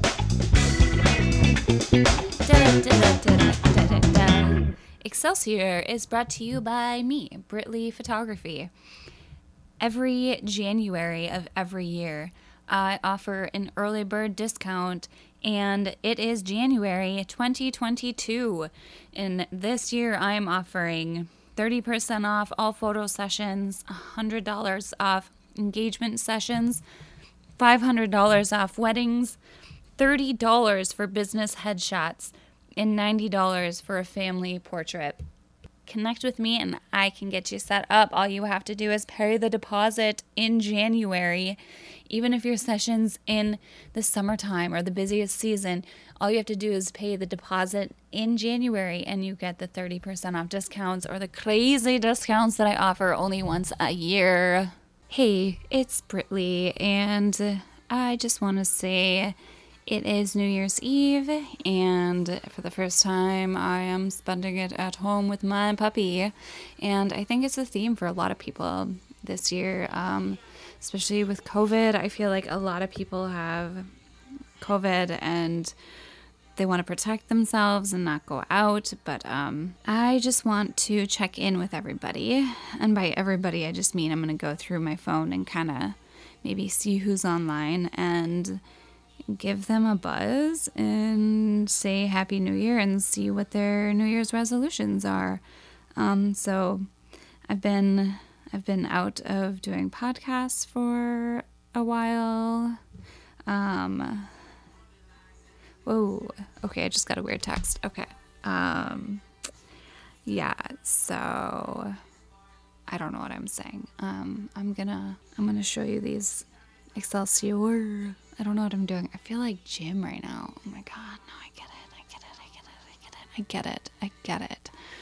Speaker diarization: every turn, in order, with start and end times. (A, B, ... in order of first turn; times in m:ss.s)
0:02.4-0:08.7 A
0:09.8-0:26.8 A
0:27.6-0:29.4 A
0:30.0-0:35.2 A
0:35.8-1:13.9 A
1:14.6-1:15.7 A
1:16.6-1:28.6 A
1:29.3-1:35.4 A
1:36.0-1:36.9 A
1:37.5-1:42.8 A
1:43.5-1:44.3 A
1:45.8-1:49.2 A
1:50.2-1:52.0 A
1:52.9-2:04.7 A